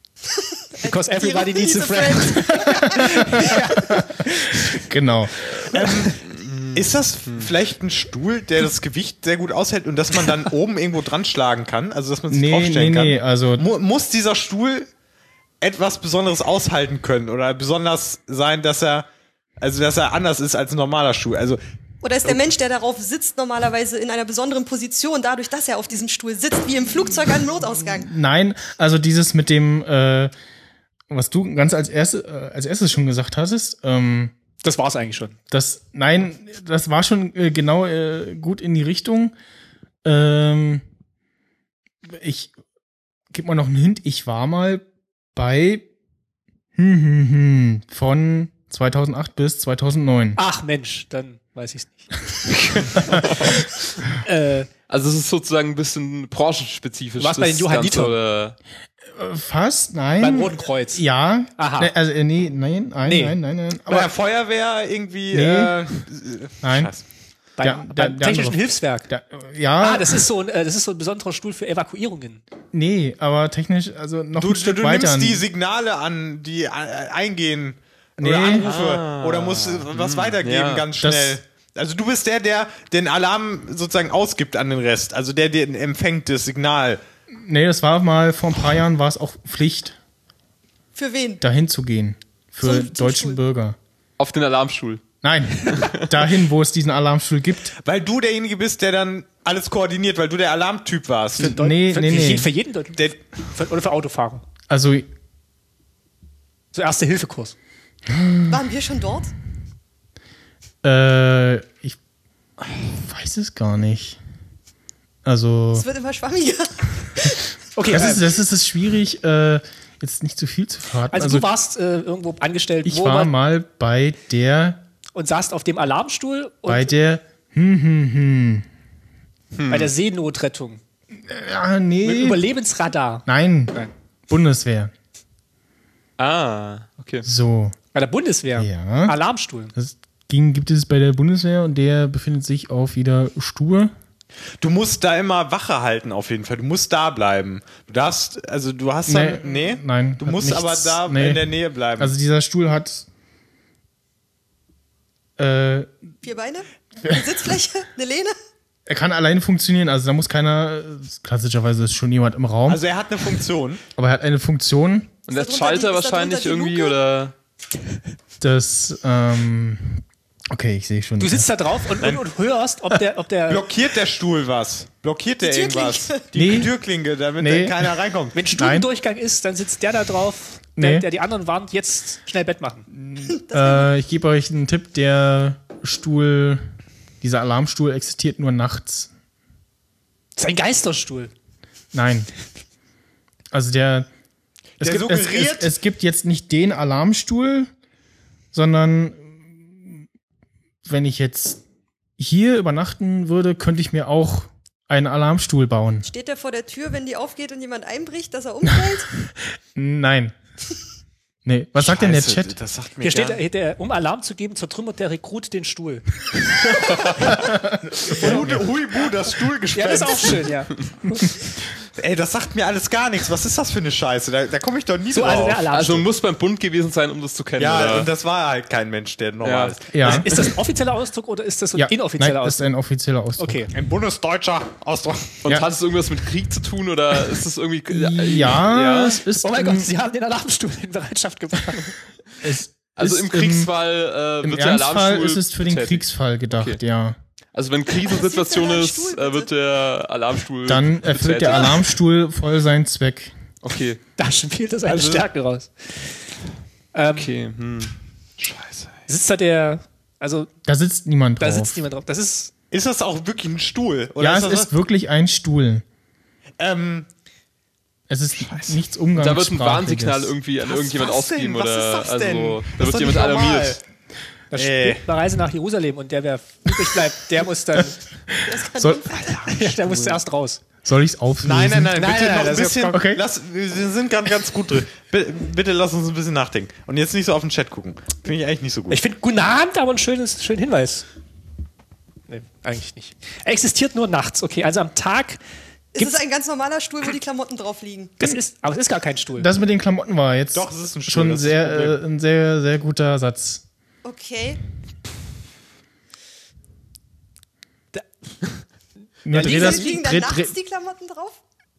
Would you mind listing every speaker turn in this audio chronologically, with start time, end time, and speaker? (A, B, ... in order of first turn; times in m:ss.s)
0:00.4-0:03.6 A
0:00.9-0:04.8 B
0:02.6-0:04.0 C
0:04.8-0:05.7 C
0:05.6-0:14.9 D
0:06.3-0:07.5 E
0:12.3-0:13.6 C
0:15.6-0:19.1 D
0:19.6-0:21.6 D
0:22.0-0:28.1 A
0:28.0-0:30.3 C
0:31.1-0:34.3 C
0:34.6-0:35.4 B
0:35.5-0:39.3 C
0:40.0-0:40.8 C
0:42.1-0:42.5 C
0:43.3-0:45.9 C
0:46.8-0:50.4 C
0:50.4-0:52.1 B
0:52.6-0:53.6 B
0:54.1-0:54.7 B
0:54.9-0:58.6 E
0:57.2-0:58.2 B
0:59.1-1:04.1 C
1:00.2-1:01.0 B
1:01.6-1:01.9 B
1:03.0-1:03.4 B
1:03.9-1:07.0 D
1:05.3-1:05.9 C
1:06.6-1:06.9 C
1:07.6-1:09.1 B
1:07.6-1:10.3 C
1:09.8-1:12.4 B
1:12.7-1:15.4 C
1:14.4-1:27.0 D
1:18.2-1:18.7 C
1:18.6-1:20.9 E
1:21.0-1:21.4 C
1:27.3-1:30.0 C
1:31.0-1:31.4 A
1:31.4-1:33.8 C
1:32.6-1:33.4 A
1:34.2-1:35.0 E
1:35.2-1:37.7 C
1:35.7-1:36.1 E
1:37.8-1:41.6 D
1:41.4-1:44.4 B
1:41.4-1:42.5 C
1:44.7-1:45.1 C
1:46.7-1:47.6 B
1:48.1-1:48.6 C
1:48.5-1:49.3 A
1:50.8-1:52.0 C
1:52.6-1:54.2 C
1:55.2-1:55.9 C
1:55.7-1:57.5 A
1:57.8-1:58.2 B
1:57.9-2:01.5 C
2:01.1-2:03.3 B
2:02.8-2:04.8 C
2:05.1-2:06.9 B
2:06.7-2:08.7 C
2:09.6-2:09.9 E
2:09.7-2:10.8 B
2:11.2-2:12.4 C
2:12.0-2:13.9 B
2:13.3-2:13.7 C
2:14.3-2:14.9 C
2:16.2-2:17.2 E
2:17.2-2:17.8 C
2:17.9-2:19.7 B
2:18.6-2:19.2 C
2:19.8-2:23.9 C
2:24.6-2:32.1 D
2:29.1-2:33.1 C
2:35.4-2:36.0 C
2:36.2-2:38.4 A
2:38.9-2:42.8 C
2:42.7-2:43.8 D
2:44.0-2:45.1 C
2:45.3-2:47.3 E
2:45.3-2:47.0 A
2:48.4-2:51.5 C
2:51.2-2:53.7 B
2:53.5-2:58.4 D
2:55.4-2:56.3 A
2:56.3-2:56.7 C
2:57.4-2:58.0 C
2:58.3-3:02.9 B
2:58.5-2:58.9 C
3:00.8-3:01.1 C
3:02.9-3:06.6 C
3:03.3-3:03.9 A
3:07.2-3:09.1 C
3:10.4-3:11.3 B
3:11.9-3:12.3 C
3:13.5-3:14.1 C
3:14.8-3:15.7 D
3:14.8-3:17.7 C
3:18.5-3:20.0 C
3:20.8-3:21.6 C
3:22.2-3:26.1 C
3:26.0-3:29.1 A
3:29.7-3:30.4 C
3:31.4-3:32.6 C
3:31.8-3:33.4 D
3:33.0-3:36.1 B
3:36.9-3:37.3 D
3:37.3-3:38.6 C
3:38.0-3:40.5 D
3:38.1-3:38.5 B
3:39.7-3:40.7 B
3:41.9-3:45.7 D
3:45.1-3:46.1 B
3:45.7-3:48.1 E
3:47.6-3:49.9 D
3:49.4-3:49.8 E
3:49.9-3:50.3 C
3:50.0-3:52.7 B
3:51.8-3:53.6 C
3:53.4-3:53.7 B
3:53.7-3:55.4 D
3:55.4-3:59.2 E
3:57.9-3:59.9 C
3:59.4-4:01.9 B
4:02.4-4:03.7 C
4:02.9-4:06.8 E
4:04.4-4:07.2 C
4:07.5-4:11.8 E
4:08.0-4:09.5 A
4:10.7-4:13.3 C
4:11.5-4:11.8 A
4:13.6-4:14.0 E
4:14.2-4:16.1 B
4:14.9-4:15.3 D
4:16.9-4:17.3 B
4:17.1-4:17.9 E
4:18.4-4:19.0 D
4:19.1-4:20.5 B
4:20.6-4:21.8 C
4:21.4-4:22.5 B
4:22.7-4:24.7 D
4:24.2-4:25.8 C
4:26.6-4:27.1 D
4:28.1-4:30.4 C
4:28.3-4:28.8 D
4:29.2-4:33.8 E
4:30.6-4:33.8 D
4:34.5-4:38.0 B
4:34.6-4:35.0 D
4:38.4-4:39.3 A
4:38.8-4:39.0 C
4:39.3-4:40.2 D
4:39.4-4:40.6 B
4:40.8-4:42.0 C
4:41.4-4:49.0 D
4:42.0-4:43.0 B
4:42.9-4:43.2 C
4:48.9-4:51.1 B
4:52.3-4:55.4 B
4:55.9-4:58.2 A
4:58.2-4:59.5 B
4:59.4-5:03.6 C
5:00.5-5:02.0 D
5:04.0-5:04.6 A
5:09.2-5:10.5 C
5:09.3-5:09.9 B
5:09.3-5:11.4 A